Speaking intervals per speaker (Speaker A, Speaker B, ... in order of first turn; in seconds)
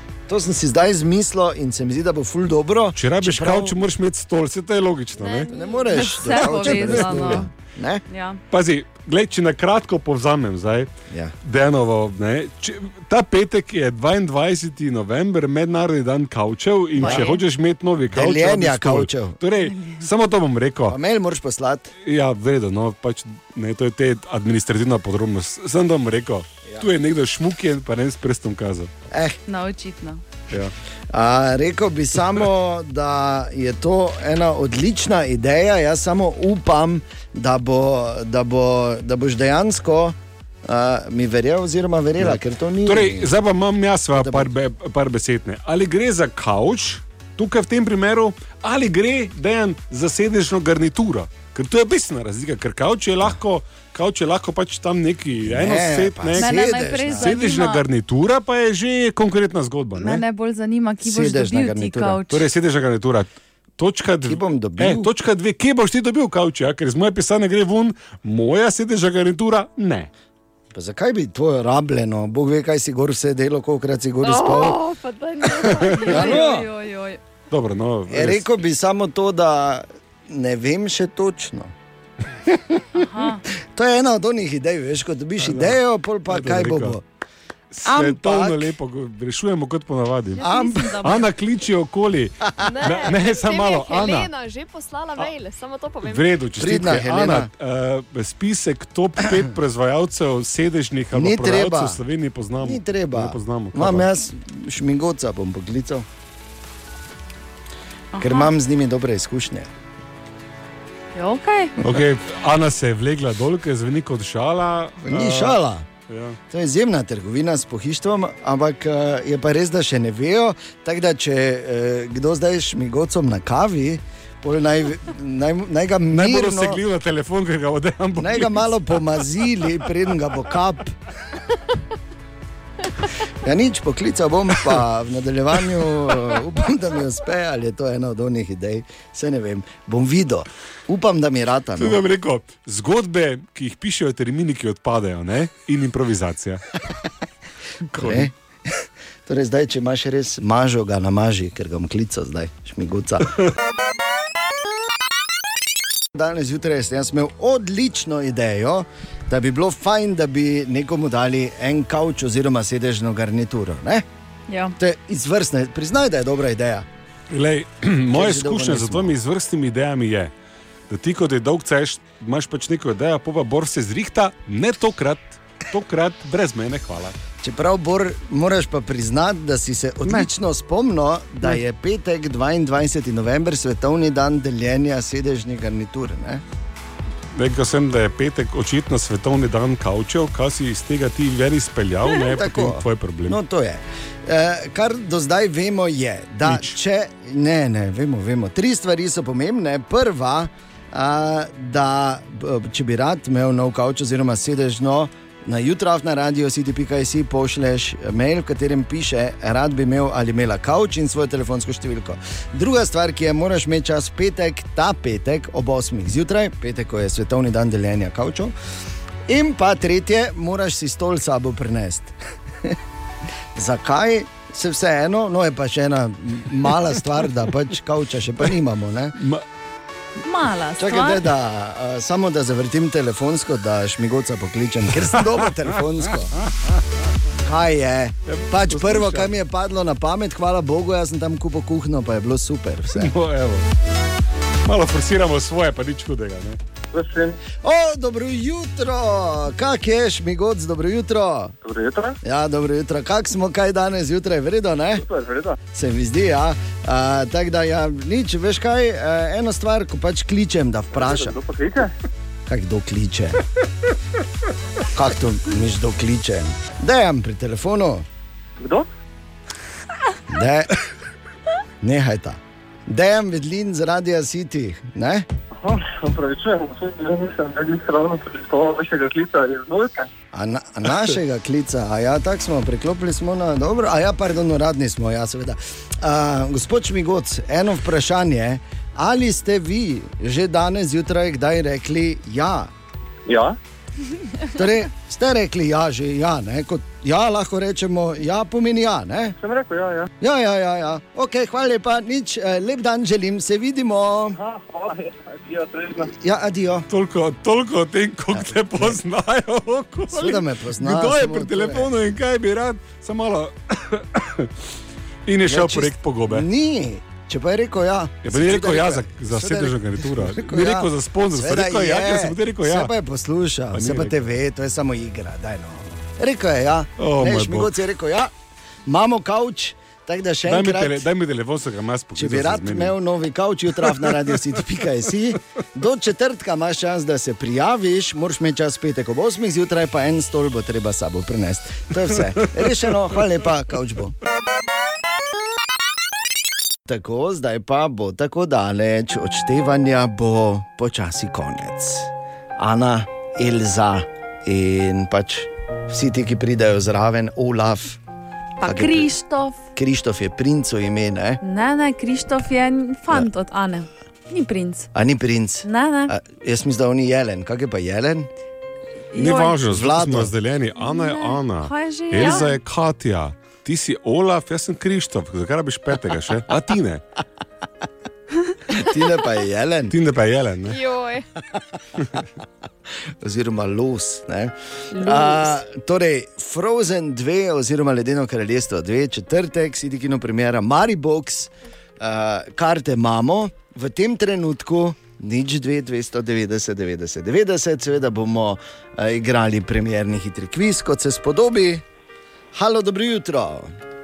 Speaker A: 0.3-3.8, 5.5-8.0, 17.0-17.3, 18.1-19.4, 20.9-21.9, 29.1-29.4, 31.1-43.3, 44.1-44.5, 55.4-57.4, 61.0-62.3, 64.3-65.1, 70.7-74.8, 76.1-76.7, 78.1-81.7, 82.5-82.8, 83.5-87.0, 87.8-88.7, 90.4-90.9, 96.6-97.5, 101.1-102.0, 102.6-106.1, 108.2-109.7, 115.0-115.9, 116.5-126.8, 128.2-130.9, 133.4-142.0, 147.9-148.3, 149.3-153.4, 156.2-164.1, 164.8-166.9, 168.1-169.1, 177.4-186.4, 192.1-218.5, 219.3-222.1, 223.6-229.2, 230.8-236.3, 237.4-243.1, 247.6-251.6, 252.2-255.0, 255.7-261.4, 262.5-263.4, 264.9-268.1, 270.3-270.7, 271.8-275.3, 280.3-292.7, 294.5-299.4, 300.2-304.4, 306.1-306.9, 308.4-308.9, 310.1-311.9, 315.5-328.3, 328.9-331.0, 332.2-344.1, 346.9-358.0, 358.6-359.1, 359.8-361.4, 364.9-368.3, 369.6-370.3, 378.7-379.9, 383.2-401.8, 402.5-403.7
Speaker B: 3.0-5.5, 8.5-10.9, 11.4-21.0, 22.1-28.9, 42.2-60.2, 62.3-70.1, 75.6-76.3, 77.5-78.5, 85.4-87.0, 87.7-94.3, 96.0-104.1, 111.8-116.4, 126.1-129.0, 141.8-146.6, 147.9-148.3, 167.3-170.3, 170.9-177.2, 187.3-193.4, 196.4-196.8, 229.2-229.4, 238.3-239.3, 242.9-243.7, 244.7-246.6, 306.9-314.5, 315.3-316.5, 318.2-322.9, 323.7-324.3, 327.0-327.8, 330.5-333.0, 333.9-334.1, 369.1-377.0, 379.9-380.8
Speaker C: 5.2-6.4, 74.3-76.1, 92.6-96.4, 380.7-381.3
Speaker D: 5.9-7.5, 8.1-8.4, 17.0-17.4, 19.6-20.1, 29.5-30.2, 56.4-57.8, 60.0-62.4, 75.5-77.2, 83.0-83.4, 90.4-91.3, 108.1-108.5, 111.2-111.8, 164.5-164.8, 230.2-231.3, 358.6-359.6, 361.4-364.9, 365.6-366.1, 369.1-369.6, 370.8-372.6, 384.9-385.6
Speaker E: 246.9-247.4, 251.6-252.2, 255.0-255.6, 260.9-261.9, 268.6-268.9, 275.6-280.1, 293.3-293.6, 299.4-300.1, 304.4-306.1